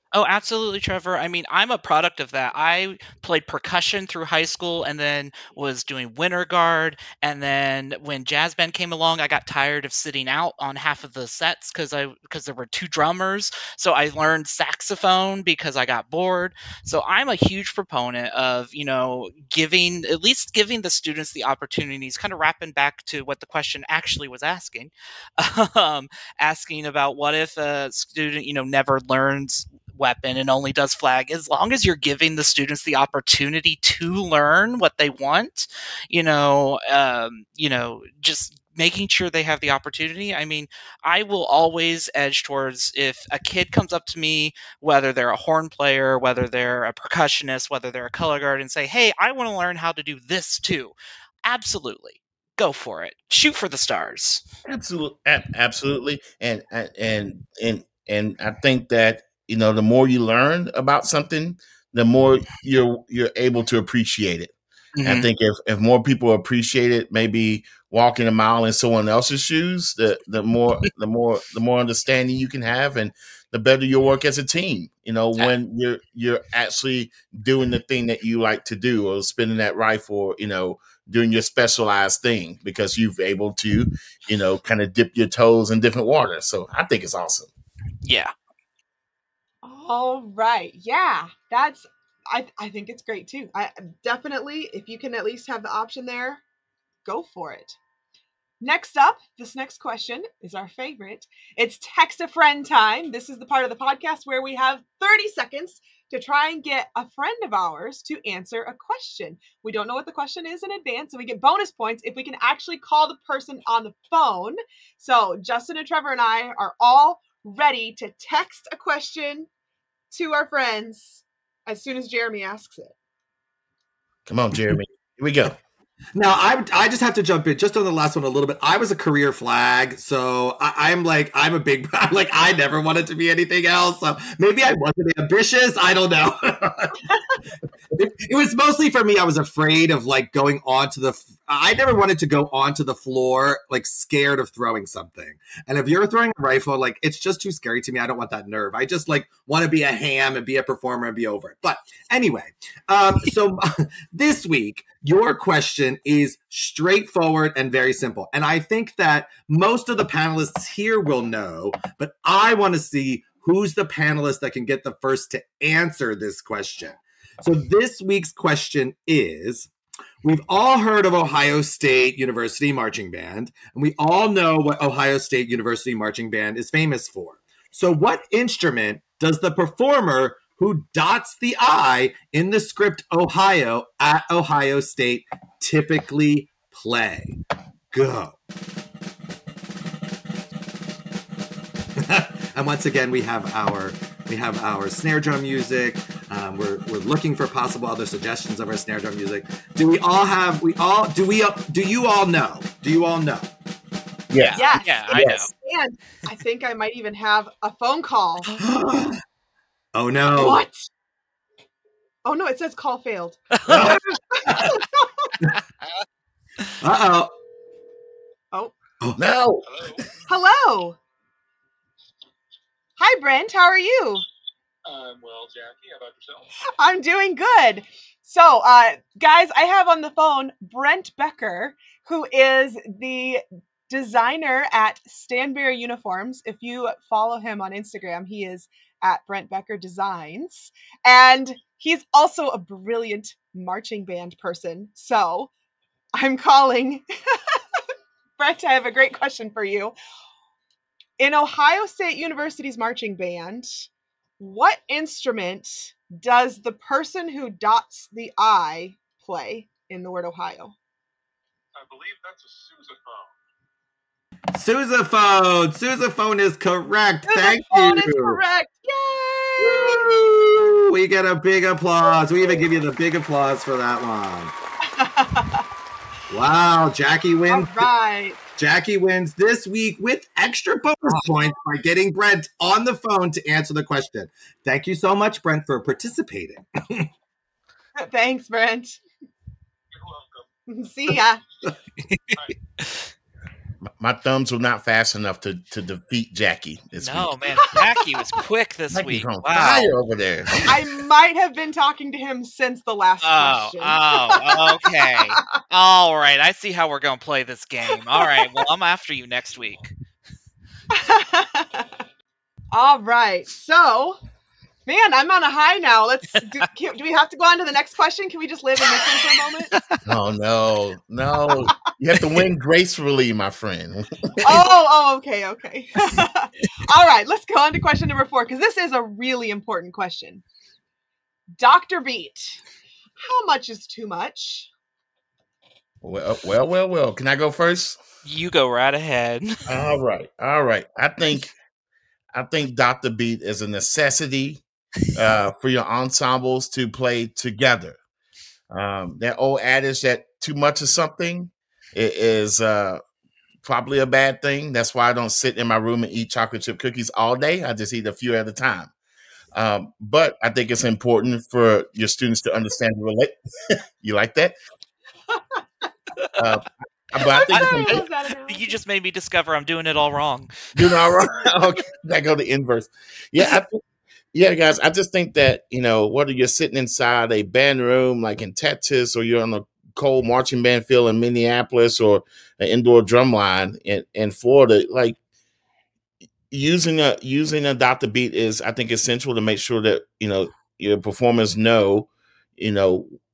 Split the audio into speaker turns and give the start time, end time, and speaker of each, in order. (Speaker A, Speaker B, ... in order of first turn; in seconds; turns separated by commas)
Speaker A: 0.1-54.4, Speaker B: 54.7-64.5, Speaker A: 65.0-65.3, Speaker B: 65.0-87.5, Speaker A: 88.0-88.3, Speaker C: 89.6-96.4, Speaker C: 97.0-97.8, Speaker C: 98.6-119.5, Speaker C: 120.1-122.9, Speaker B: 124.3-125.6, Speaker D: 126.1-137.0, Speaker D: 137.9-169.7, Speaker D: 170.2-187.4, Speaker D: 187.9-188.4, Speaker D: 192.0-203.5, Speaker B: 204.3-205.5, Speaker A: 204.4-205.5, Speaker C: 204.5-208.5, Speaker D: 208.6-209.2, Speaker D: 209.9-210.6, Speaker C: 210.3-210.9, Speaker C: 212.2-213.9, Speaker A: 213.6-213.9, Speaker D: 213.7-214.8, Speaker C: 214.7-215.3, Speaker D: 216.8-217.3, Speaker B: 219.2-219.7, Speaker E: 219.7-220.0, Speaker C: 220.3-221.0, Speaker C: 223.0-224.2, Speaker E: 224.9-226.5, Speaker C: 226.8-245.5, Speaker C: 246.2-247.1, Speaker C: 248.4-249.9, Speaker C: 251.2-253.9, Speaker C: 254.4-260.7, Speaker E: 261.7-263.4, Speaker D: 264.5-268.4, Speaker C: 267.2-270.0, Speaker D: 269.6-274.5, Speaker C: 272.1-272.6, Speaker C: 275.0-275.6, Speaker D: 276.3-277.9, Speaker C: 277.4-278.4, Speaker D: 278.6-287.1, Speaker C: 288.0-289.0, Speaker E: 290.0-290.4, Speaker C: 290.7-291.4, Speaker A: 292.1-292.4, Speaker B: 294.0-297.4, Speaker A: 297.0-299.9, Speaker C: 297.6-298.1, Speaker B: 298.9-300.7, Speaker C: 300.6-305.6, Speaker A: 303.2-309.9, Speaker C: 307.9-308.6, Speaker C: 310.9-311.9, Speaker C: 312.7-314.2, Speaker C: 314.9-319.7, Speaker A: 319.7-320.0, Speaker B: 320.1-324.5, Speaker C: 321.5-321.9, Speaker C: 324.4-330.4, Speaker C: 331.6-332.6, Speaker C: 333.2-334.7, Speaker B: 336.0-338.0, Speaker A: 338.2-339.6, Speaker B: 339.7-341.5, Speaker B: 342.3-344.6, Speaker B: 345.1-348.0, Speaker B: 348.7-353.0, Speaker B: 353.6-358.9, Speaker B: 359.5-364.6, Speaker B: 366.4-368.1, Speaker C: 367.2-368.8, Speaker A: 367.5-370.5, Speaker B: 370.7-373.8, Speaker B: 374.3-385.1, Speaker B: 386.5-393.2